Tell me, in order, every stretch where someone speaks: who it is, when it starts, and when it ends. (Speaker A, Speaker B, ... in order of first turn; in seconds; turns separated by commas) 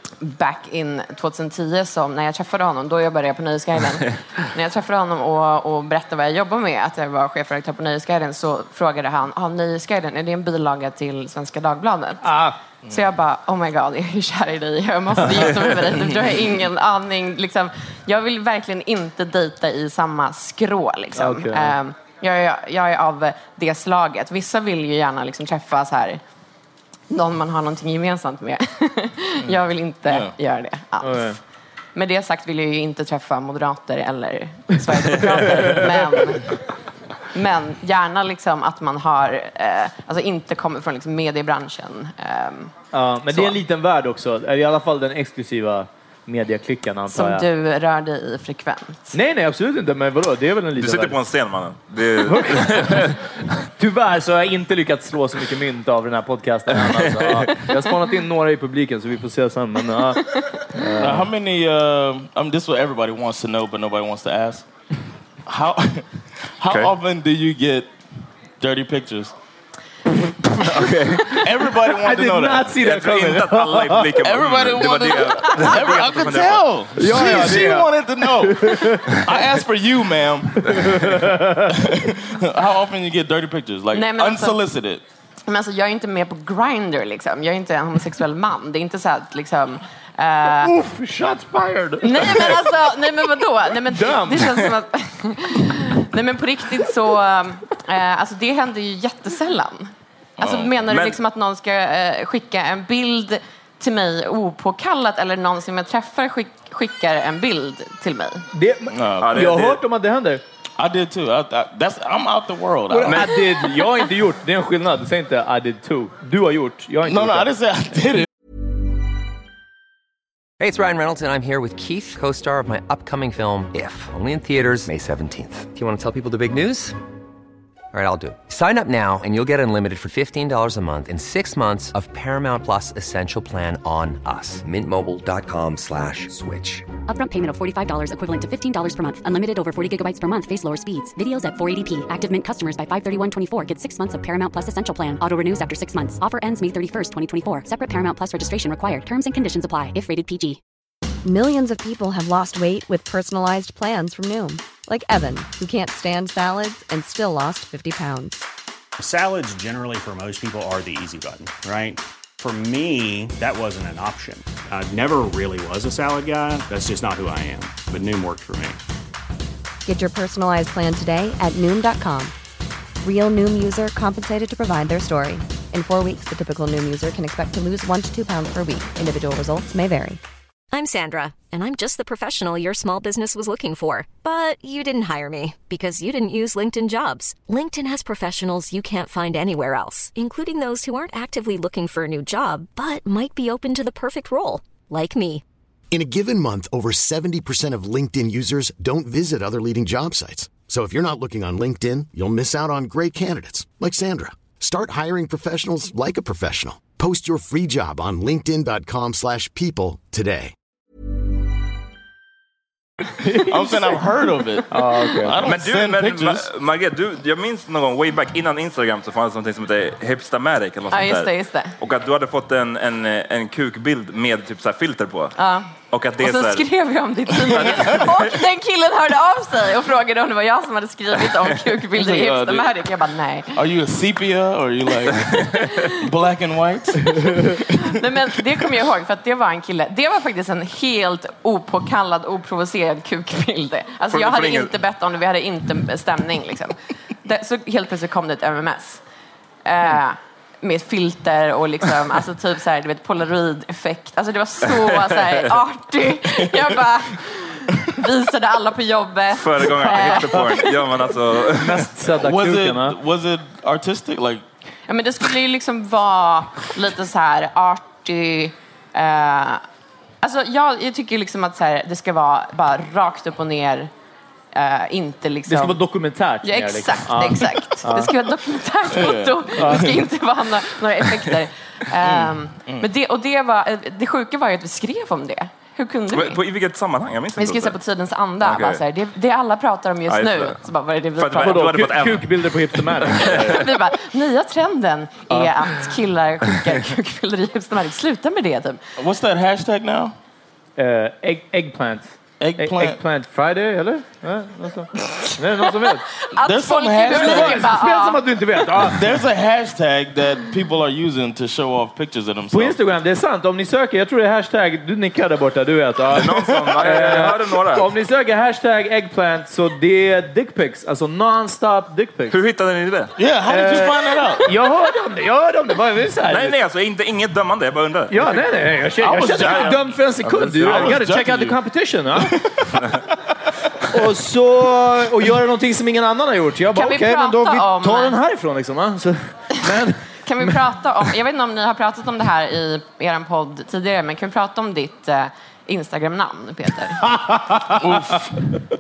Speaker A: 0.2-12.2, Speaker B: 12.2-12.6, Speaker A: 12.9-26.2, Speaker B: 21.2-21.8, Speaker A: 27.1-31.4, Speaker C: 29.5-30.3, Speaker B: 31.0-31.4, Speaker A: 31.9-36.6, Speaker A: 37.3-42.7, Speaker B: 42.9-47.5, Speaker A: 43.3-43.6, Speaker A: 47.1-49.1, Speaker B: 49.1-51.2, Speaker D: 50.8-53.3, Speaker B: 52.3-53.1, Speaker B: 53.8-61.3, Speaker D: 57.1-57.5, Speaker C: 61.0-64.7, Speaker C: 65.5-67.9, Speaker C: 68.6-69.3, Speaker D: 70.6-71.4, Speaker C: 71.3-72.8, Speaker B: 72.0-74.1, Speaker D: 72.8-76.7, Speaker C: 74.2-85.0, Speaker B: 77.0-79.2, Speaker B: 80.6-81.7, Speaker A: 83.9-84.6, Speaker A: 85.5-90.7, Speaker B: 90.6-92.7, Speaker A: 92.0-108.5, Speaker B: 93.9-94.7, Speaker C: 100.4-101.2, Speaker B: 108.5-110.4, Speaker C: 108.9-109.5, Speaker D: 109.2-109.8, Speaker C: 110.8-113.4, Speaker B: 112.9-117.5, Speaker C: 117.0-118.3, Speaker E: 120.6-127.0, Speaker E: 127.9-137.0, Speaker F: 137.1-150.6, Speaker G: 151.2-158.4, Speaker H: 159.0-168.8, Speaker G: 169.9-172.3, Speaker G: 173.0-180.2, Speaker I: 180.7-195.4, Speaker J: 195.9-210.5, Speaker B: 213.2-214.0, Speaker C: 213.3-216.5, Speaker B: 214.7-215.4, Speaker D: 215.4-225.3, Speaker A: 220.9-221.7, Speaker A: 225.4-233.6, Speaker D: 225.9-226.7, Speaker C: 227.5-228.0, Speaker D: 227.5-228.1, Speaker C: 231.9-232.7, Speaker C: 233.6-237.7, Speaker A: 237.7-249.0, Speaker D: 244.1-244.7, Speaker A: 249.7-260.9, Speaker D: 259.3-261.9, Speaker B: 261.5-263.0, Speaker C: 262.1-264.4, Speaker A: 264.9-269.6, Speaker A: 270.2-273.9, Speaker A: 274.5-275.8, Speaker B: 275.5-278.1, Speaker A: 276.4-286.4, Speaker C: 278.9-280.0, Speaker B: 279.6-280.0, Speaker C: 282.0-282.9, Speaker D: 286.1-287.8, Speaker A: 287.4-291.9, Speaker D: 288.4-288.8, Speaker D: 290.1-290.6, Speaker D: 291.2-293.6, Speaker B: 291.4-293.6, Speaker A: 293.1-298.8, Speaker B: 295.3-295.5, Speaker C: 299.0-300.1, Speaker B: 300.8-306.0, Speaker C: 302.4-303.0, Speaker A: 305.8-308.2, Speaker C: 306.4-307.7, Speaker B: 307.1-309.0, Speaker C: 308.8-312.8, Speaker B: 312.5-322.4, Speaker D: 316.1-317.9, Speaker C: 316.9-317.2, Speaker D: 322.3-323.1, Speaker C: 323.2-324.5, Speaker B: 323.5-326.5, Speaker D: 326.3-328.4, Speaker B: 328.1-332.4, Speaker C: 329.0-331.6, Speaker D: 329.4-329.8, Speaker D: 330.6-331.0, Speaker C: 332.3-332.7, Speaker B: 333.9-340.6, Speaker A: 336.7-338.2, Speaker A: 340.3-347.0, Speaker B: 347.0-348.2, Speaker C: 347.7-348.3